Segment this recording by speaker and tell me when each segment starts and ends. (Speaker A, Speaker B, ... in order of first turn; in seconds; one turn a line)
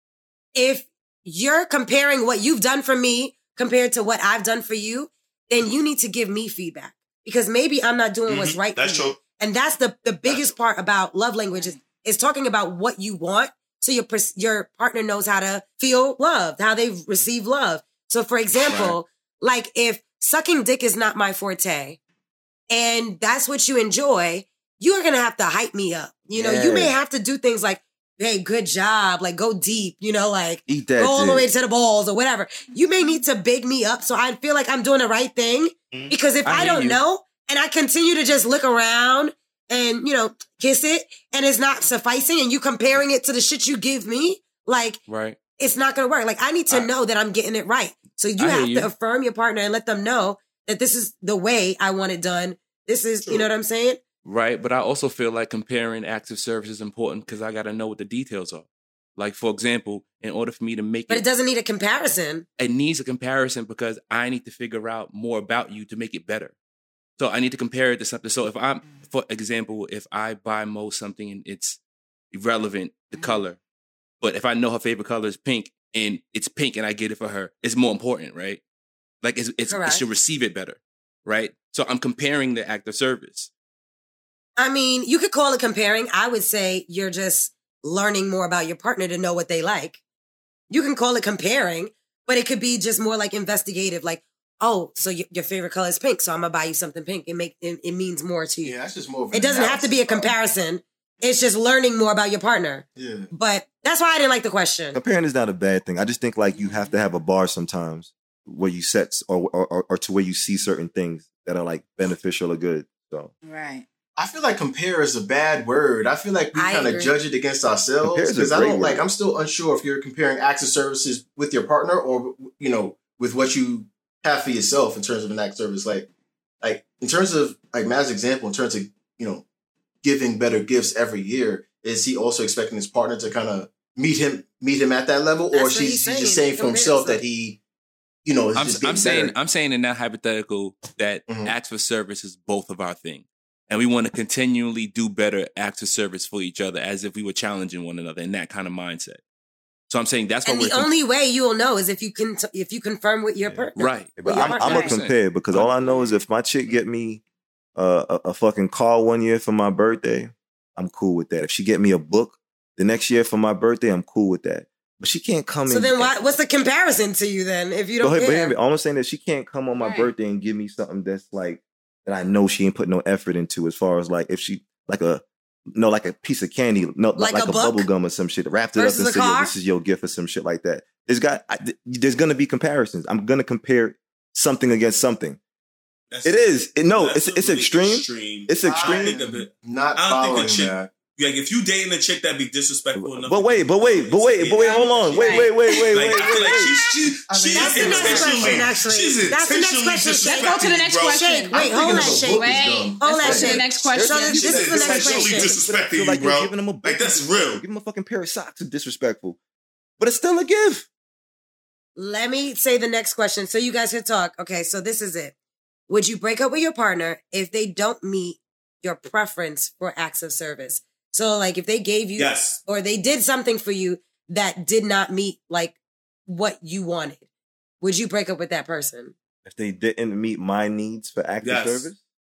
Speaker A: 0.6-22.0
Speaker B: 8.3-9.2
Speaker B: 10.2-10.6
Speaker C: 11.5-11.8
Speaker A: 22.7-45.0
Speaker D: 26.3-27.0
Speaker D: 30.7-31.5
Speaker E: 36.5-37.0
Speaker E: 45.1-45.4
Speaker A: 45.6-54.0
Speaker E: 48.4-48.9
Speaker E: 54.2-61.3
Speaker A: 61.1-62.5
Speaker E: 62.6-66.5
Speaker E: 67.2-71.8
Speaker E: 72.3-73.6
Speaker E: 74.2-78.6
Speaker E: 79.2-83.5
Speaker A: 79.7-80.0
Speaker A: 84.6-90.0
Speaker A: 90.7-98.8
Speaker F: 98.6-100.3
Speaker A: 99.3-105.0
Speaker F: 103.0-103.3
Speaker D: 104.9-113.3
Speaker C: 106.5-107.0
Speaker C: 113.4-113.9
Speaker F: 114.2-126.1
Speaker A: 116.5-117.1
Speaker D: 118.0-119.0
Speaker F: 126.6-129.4
Speaker F: 130.0-137.6
Speaker A: 135.5-137.2
Speaker F: 138.2-139.3
Speaker E: 138.5-149.2
Speaker F: 141.3-141.5
Speaker E: 149.9-150.9
Speaker A: 150.4-154.8
Speaker D: 153.4-157.2
Speaker E: 153.8-156.0
Speaker C: 154.7-155.0
Speaker D: 157.8-166.1
Speaker A: 165.7-168.6
Speaker D: 168.0-185.4
Speaker C: 169.8-170.1
Speaker A: 177.2-177.9
Speaker A: 178.8-179.5
Speaker B: 186.1-201.2
Speaker D: 186.2-189.2
Speaker F: 188.6-190.9
Speaker D: 193.0-196.8
Speaker C: 194.6-195.8
Speaker F: 197.3-198.8
Speaker A: 197.5-202.5
Speaker C: 200.3-205.0
Speaker F: 201.6-203.7
Speaker A: 203.0-205.5
Speaker D: 203.9-209.4
Speaker B: 204.4-207.6
Speaker D: 210.0-210.9
Speaker A: 212.0-215.3
Speaker A: 215.9-225.8
Speaker B: 222.2-222.6
Speaker A: 226.3-227.2
Speaker A: 227.8-229.1
Speaker D: 229.4-232.0
Speaker B: 231.4-231.9